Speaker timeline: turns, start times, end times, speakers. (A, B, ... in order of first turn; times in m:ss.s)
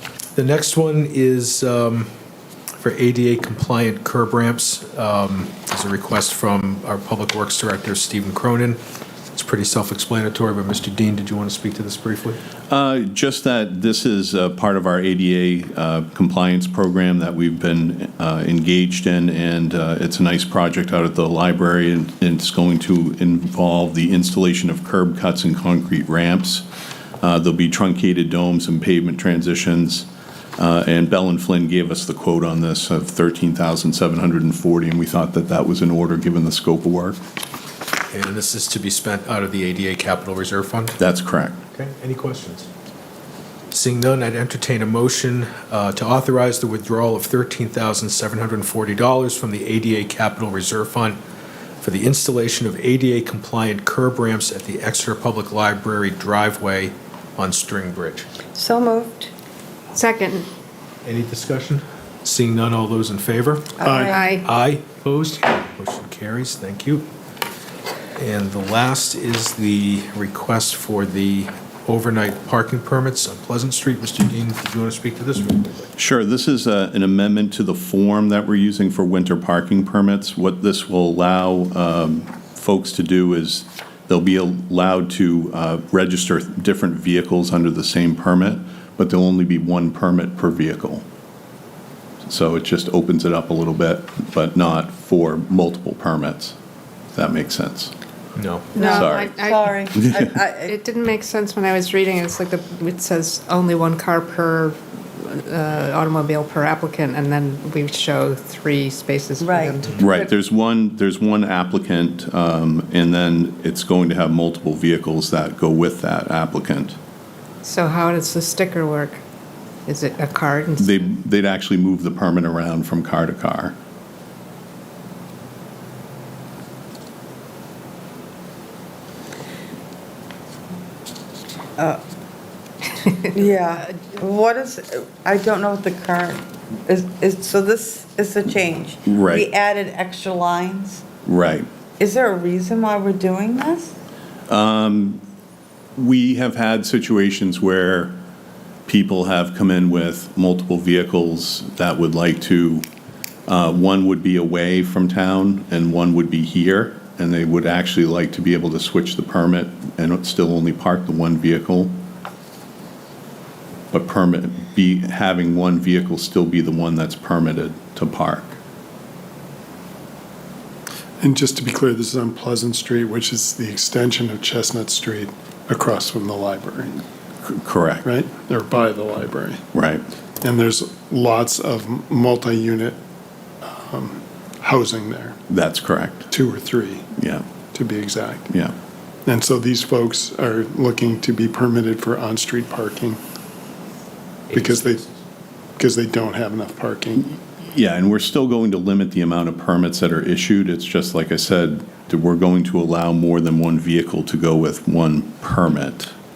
0:00.4-0:02.1 A
0:02.8-0:08.8 A
0:09.3-0:12.4 A
0:12.7-0:26.7 B
0:27.2-0:37.2 B
0:38.1-0:41.0 A
0:41.0-0:41.6 B
0:41.7-0:42.7 A
0:43.7-0:51.2 A
0:51.8-0:58.3 A
0:58.6-0:59.3 C
0:59.9-1:00.5 D
1:01.0-1:03.7 A
1:03.8-1:04.4 C
1:04.1-1:04.4 D
1:04.4-1:07.1 A
1:08.2-1:15.9 A
1:16.0-1:31.0 B
1:32.2-1:36.6 B
1:37.1-1:37.9 B
1:38.4-1:38.7 A
1:38.8-1:50.0 D
1:38.8-1:40.8 C
1:39.0-1:39.3 B
1:49.4-1:50.3 C
1:50.0-1:57.0 B
1:57.6-1:59.2 D
1:59.9-2:01.1 D
2:00.8-2:03.8 B
2:13.3-2:21.0 C
2:19.0-2:19.5 B
2:21.2-2:21.7 B
2:22.0-2:23.9 C
2:24.5-2:25.2 B
2:26.0-2:28.2 B
2:28.9-2:32.9 B
2:33.5-2:42.0 B
2:43.9-2:48.6 B
2:51.2-2:57.0 E
2:57.4-2:58.1 B
2:58.0-2:59.6 E
2:59.7-3:00.1 B
3:00.4-3:03.0 E
3:03.6-3:05.4 E
3:05.5-3:06.3 B
3:06.3-3:07.1 E
3:07.2-3:07.4 B
3:07.7-3:08.5 E
3:08.5-3:08.8 B
3:09.3-3:13.2 E
3:14.5-3:15.1 A
3:14.5-3:15.0 E
3:15.8-3:17.3 E
3:17.6-3:26.1 B